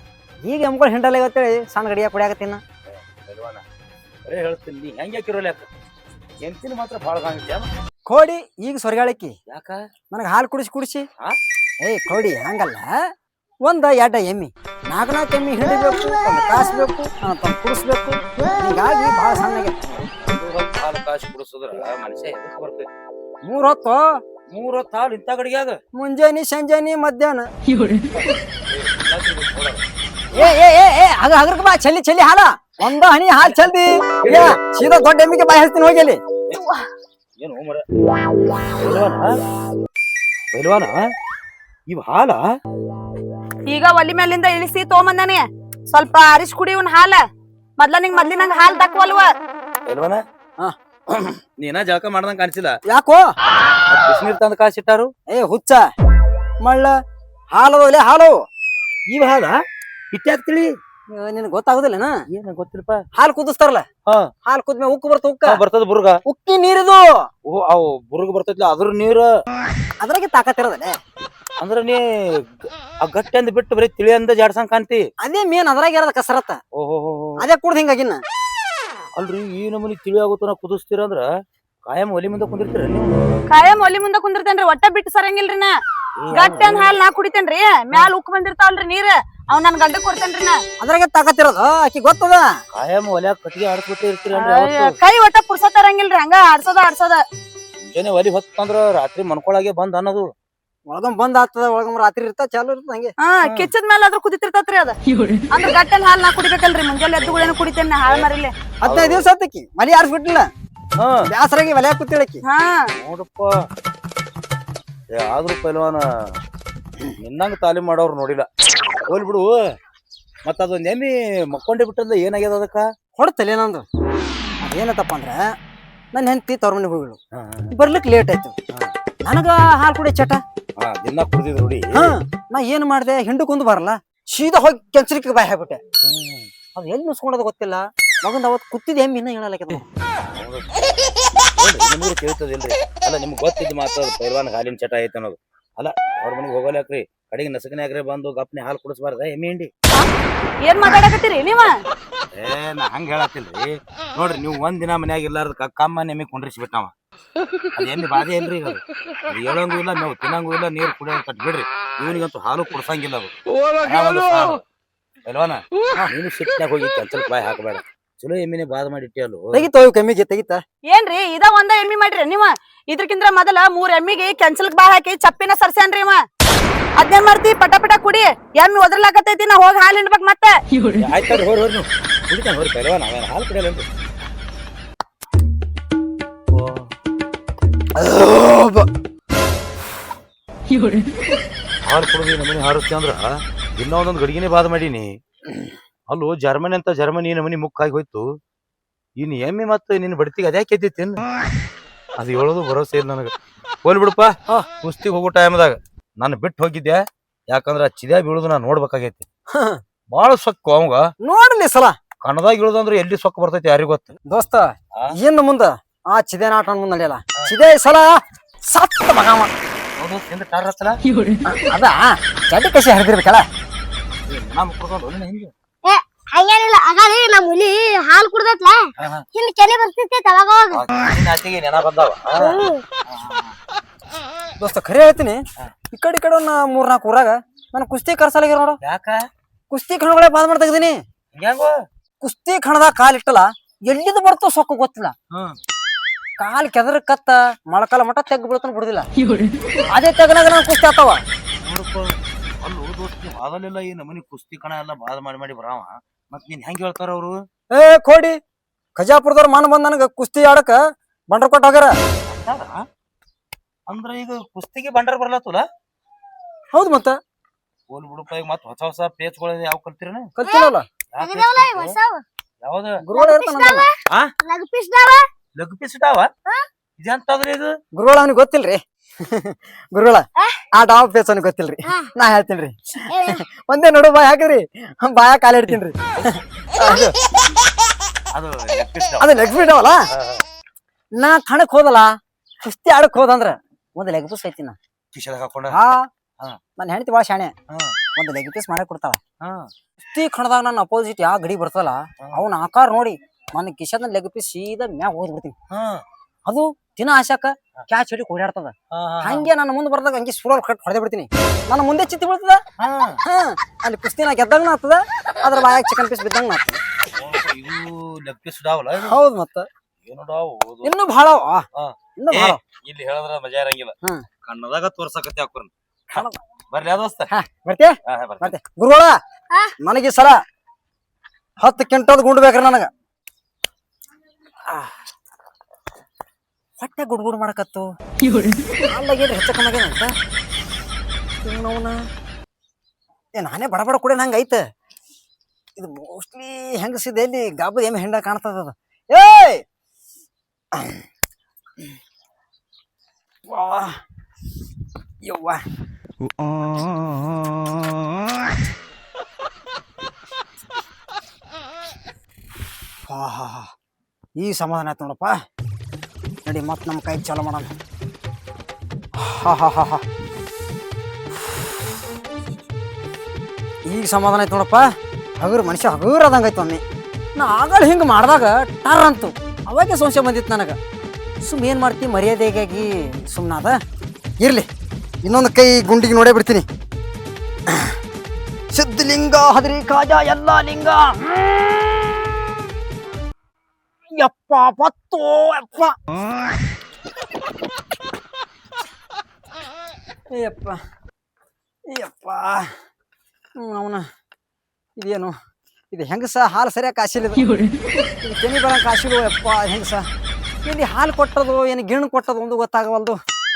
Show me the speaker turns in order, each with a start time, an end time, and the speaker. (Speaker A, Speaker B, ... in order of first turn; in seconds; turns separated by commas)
Speaker A: 0.4-2.6, Speaker B: 2.9-3.6, Speaker B: 4.3-5.7, Speaker B: 6.4-7.7, Speaker A: 8.1-9.4, Speaker B: 9.5-9.8, Speaker A: 10.1-11.1, Speaker A: 11.8-13.1, Speaker A: 13.6-19.8, Speaker B: 19.8-22.9, Speaker A: 23.4-24.2, Speaker B: 24.5-25.8, Speaker A: 25.9-27.5, Speaker B: 28.7-29.8, Speaker A: 30.3-36.2, Speaker B: 34.2-34.6, Speaker B: 37.4-37.8, Speaker B: 38.8-39.4, Speaker B: 40.5-40.9, Speaker B: 41.9-42.4, Speaker C: 43.7-47.2, Speaker C: 47.8-49.3, Speaker B: 49.9-50.2, Speaker B: 51.1-52.7, Speaker A: 52.9-53.2, Speaker B: 53.9-55.1, Speaker A: 55.3-55.9, Speaker A: 56.6-57.0, Speaker A: 57.5-58.4, Speaker B: 59.1-59.6, Speaker B: 60.1-60.7, Speaker A: 61.1-62.2, Speaker B: 62.3-63.0, Speaker A: 63.1-63.9, Speaker A: 64.5-65.6, Speaker B: 65.5-66.2, Speaker A: 66.3-67.3, Speaker B: 67.5-69.3, Speaker A: 70.0-71.0, Speaker B: 71.6-72.0, Speaker B: 73.0-75.0, Speaker A: 75.2-76.6, Speaker B: 76.8-77.5, Speaker A: 77.4-78.2, Speaker B: 79.2-81.3, Speaker B: 81.9-83.1, Speaker C: 83.5-85.7, Speaker B: 86.2-86.9, Speaker C: 86.3-90.6, Speaker A: 90.8-92.5, Speaker B: 92.7-94.9, Speaker C: 94.3-97.2, Speaker B: 97.9-100.3, Speaker A: 100.9-103.1, Speaker C: 103.2-105.0, Speaker C: 105.5-108.5, Speaker B: 107.2-108.3, Speaker A: 108.8-110.5, Speaker B: 108.8-109.3, Speaker A: 111.3-112.4, Speaker C: 112.5-112.9, Speaker B: 113.0-113.5, Speaker B: 115.2-116.0, Speaker B: 117.2-118.5, Speaker B: 119.1-119.5, Speaker B: 120.5-122.9, Speaker A: 123.2-123.8, Speaker A: 124.6-125.5, Speaker A: 126.1-127.2, Speaker B: 127.4-127.7, Speaker A: 127.7-128.6, Speaker A: 129.2-130.4, Speaker B: 130.8-132.1, Speaker A: 131.9-135.8, Speaker B: 136.0-136.5, Speaker A: 136.8-139.8, Speaker B: 140.3-140.8, Speaker B: 141.6-149.7, Speaker C: 150.6-151.8, Speaker B: 152.3-156.9, Speaker B: 157.8-164.6, Speaker B: 165.3-169.6, Speaker A: 169.5-170.6, Speaker C: 170.9-176.2, Speaker C: 177.0-180.6, Speaker B: 181.0-183.9, Speaker B: 186.5-186.9, Speaker B: 188.0-188.9, Speaker B: 191.8-195.2, Speaker B: 196.1-198.3, Speaker B: 199.2-201.2, Speaker B: 202.2-203.3, Speaker B: 203.8-209.2, Speaker A: 209.5-209.8, Speaker B: 210.1-211.0, Speaker A: 211.2-212.0, Speaker B: 212.2-214.1, Speaker A: 214.3-218.2, Speaker A: 218.7-219.5, Speaker B: 220.0-221.0, Speaker A: 221.5-223.5, Speaker B: 224.1-225.5, Speaker D: 225.8-230.8, Speaker B: 229.0-229.2, Speaker B: 230.7-233.6, Speaker D: 232.4-232.8, Speaker A: 234.6-238.8, Speaker B: 238.8-239.2, Speaker A: 239.7-241.0, Speaker B: 241.3-241.7, Speaker A: 242.2-245.2, Speaker A: 246.4-249.1, Speaker A: 249.9-251.2, Speaker B: 251.6-257.4, Speaker A: 257.7-258.4, Speaker A: 259.0-261.9, Speaker B: 262.3-262.8, Speaker B: 263.9-265.6, Speaker A: 266.7-267.2, Speaker B: 267.9-270.3, Speaker A: 270.4-270.9, Speaker D: 270.4-272.2, Speaker B: 271.1-272.0, Speaker B: 272.6-273.0, Speaker A: 273.0-273.9, Speaker D: 273.1-275.3, Speaker B: 275.6-276.3, Speaker B: 277.0-277.7, Speaker A: 277.9-287.1, Speaker D: 280.4-280.6, Speaker D: 281.9-282.1, Speaker D: 283.1-283.4, Speaker D: 286.8-287.1, Speaker B: 288.3-289.4, Speaker A: 289.2-290.1, Speaker B: 290.1-290.4, Speaker A: 291.2-292.1, Speaker A: 292.6-294.8, Speaker B: 295.1-295.8, Speaker A: 295.7-296.1, Speaker A: 296.8-297.5, Speaker B: 297.7-297.9, Speaker A: 298.2-299.2, Speaker B: 299.4-299.7, Speaker A: 300.1-305.6, Speaker B: 305.7-306.0, Speaker A: 306.5-312.6, Speaker B: 308.9-309.5, Speaker B: 312.8-313.2, Speaker A: 313.2-316.8, Speaker B: 317.2-319.2, Speaker A: 319.0-319.7, Speaker B: 320.1-320.9, Speaker A: 320.8-321.7, Speaker B: 321.8-323.9, Speaker A: 322.2-322.6, Speaker B: 324.4-327.3, Speaker A: 327.3-329.2, Speaker B: 328.1-328.6, Speaker A: 329.8-330.4, Speaker A: 331.6-332.9, Speaker A: 336.8-337.9, Speaker A: 338.9-340.1, Speaker A: 341.4-342.0, Speaker A: 343.4-344.6, Speaker A: 345.8-349.6, Speaker A: 350.8-351.0, Speaker A: 353.5-354.0, Speaker A: 355.2-355.6, Speaker A: 363.1-363.7, Speaker A: 364.4-365.4, Speaker A: 366.4-367.7, Speaker A: 369.2-370.0, Speaker A: 373.9-376.8, Speaker A: 377.4-380.8, Speaker A: 381.4-383.8, Speaker A: 384.4-384.7, Speaker A: 385.2-386.7, Speaker A: 387.7-387.9, Speaker A: 388.7-392.2, Speaker A: 394.1-395.9, Speaker A: 400.3-400.8, Speaker A: 401.9-402.7, Speaker A: 403.6-404.1, Speaker A: 405.0-405.4, Speaker A: 405.9-407.5, Speaker A: 408.2-410.1, Speaker A: 410.6-413.2